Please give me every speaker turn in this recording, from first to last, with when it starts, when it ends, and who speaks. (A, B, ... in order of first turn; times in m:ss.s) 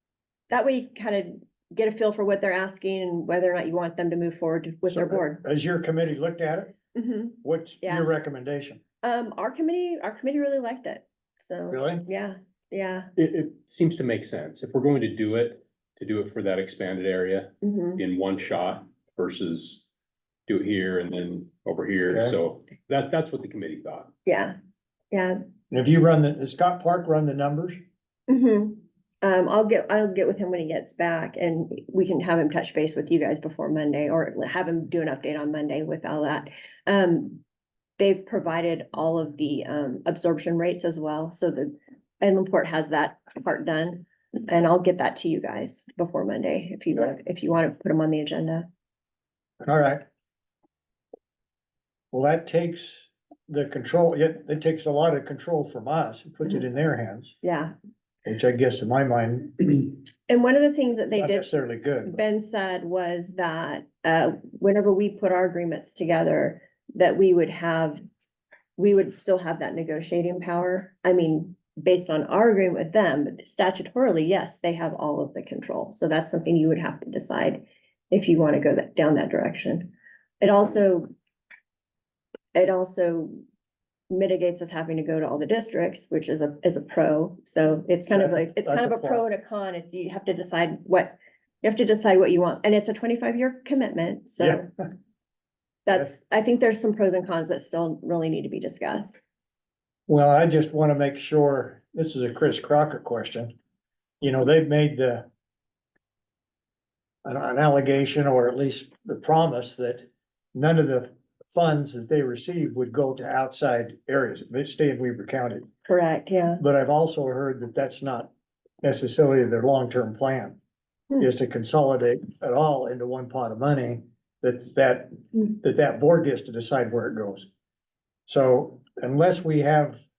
0:00.5-0:05.4 A
0:04.9-0:06.7 B
0:06.9-0:08.1 A
0:07.4-0:08.8 B
0:09.0-0:13.1 A
0:11.7-0:12.0 B
0:13.2-0:19.8 C
0:17.6-0:18.0 A
0:20.5-0:24.1 C
0:22.1-0:22.4 B
0:24.2-0:24.5 A
0:25.1-0:25.4 A
0:25.7-0:27.8 B
0:28.3-0:37.4 A
0:38.0-0:48.7 A
0:49.6-0:50.0 B
0:52.1-0:57.3 B
0:57.4-0:57.7 A
0:58.2-1:00.0 B
1:00.3-1:08.0 A
1:01.2-1:02.2 B
1:08.8-1:21.1 A
1:22.5-1:23.4 A
1:24.1-1:34.7 A
1:28.1-1:29.2 B
1:34.4-1:34.6 B
1:35.8-1:39.2 A
1:40.1-1:43.5 B
1:44.2-1:45.3 B
1:47.2-1:55.7 B
1:55.8-1:56.6 A
1:56.6-1:58.3 B
1:58.8-2:00.6 B
2:01.2-2:07.4 B
2:08.3-2:10.0 B